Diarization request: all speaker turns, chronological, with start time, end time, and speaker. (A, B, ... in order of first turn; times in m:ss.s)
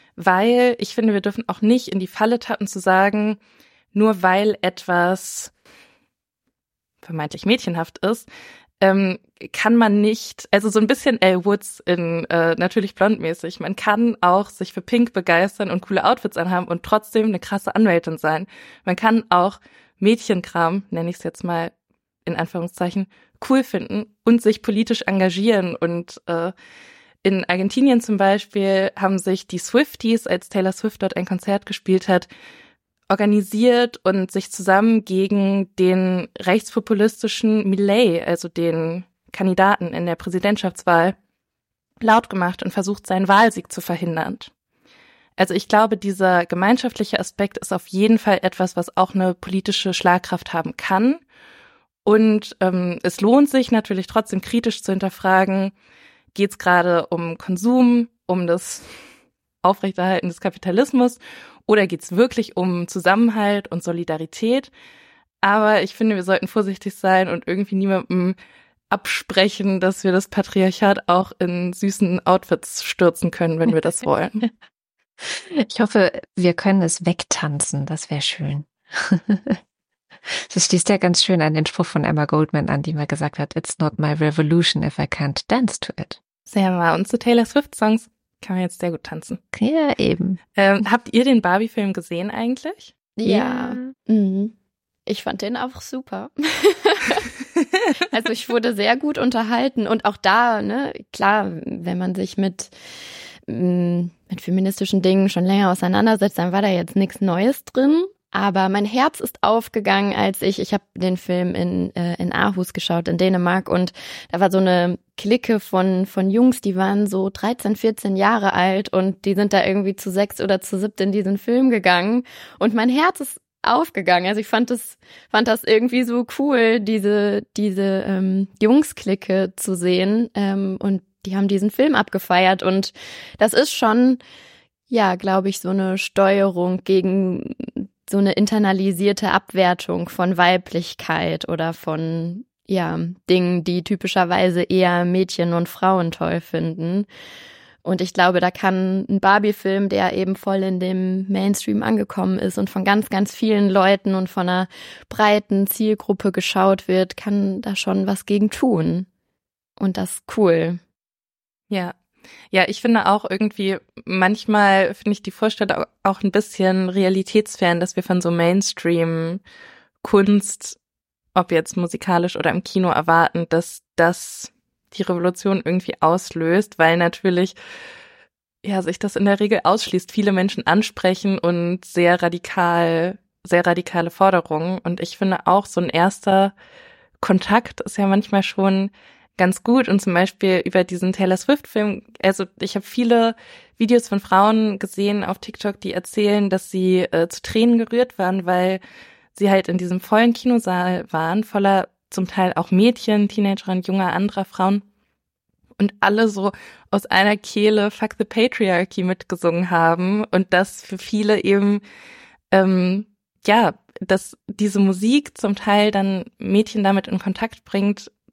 0:00.2-0:03.4 A
0:03.9-0:05.5 A
0:07.0-0:08.3 A
0:08.8-0:21.7 A
0:22.3-0:26.5 A
0:27.2-0:32.3 A
0:33.1-0:41.2 A
0:42.0-0:44.5 A
0:45.4-0:51.2 A
0:52.0-0:55.7 A
0:56.3-0:58.9 A
0:59.6-1:04.7 A
1:05.4-1:08.4 A
1:08.9-1:14.5 A
1:15.2-1:19.6 B
1:20.3-1:26.2 B
1:26.5-1:29.4 A
1:29.5-1:30.4 B
1:30.6-1:32.9 A
1:33.2-1:34.5 C
1:33.2-1:33.9 B
1:35.1-1:37.3 C
1:38.1-1:42.7 C
1:43.5-2:14.2 C
2:14.9-2:27.1 C
2:27.8-2:39.1 C
2:39.8-2:40.8 C
2:41.7-2:42.0 A
2:42.5-2:49.4 A
2:50.0-2:50.8 A
2:51.4-2:57.6 A
2:58.6-3:06.6 A
3:07.2-3:18.8 A
3:19.4-3:24.8 A
3:25.8-3:31.8 A
3:32.5-3:38.1 A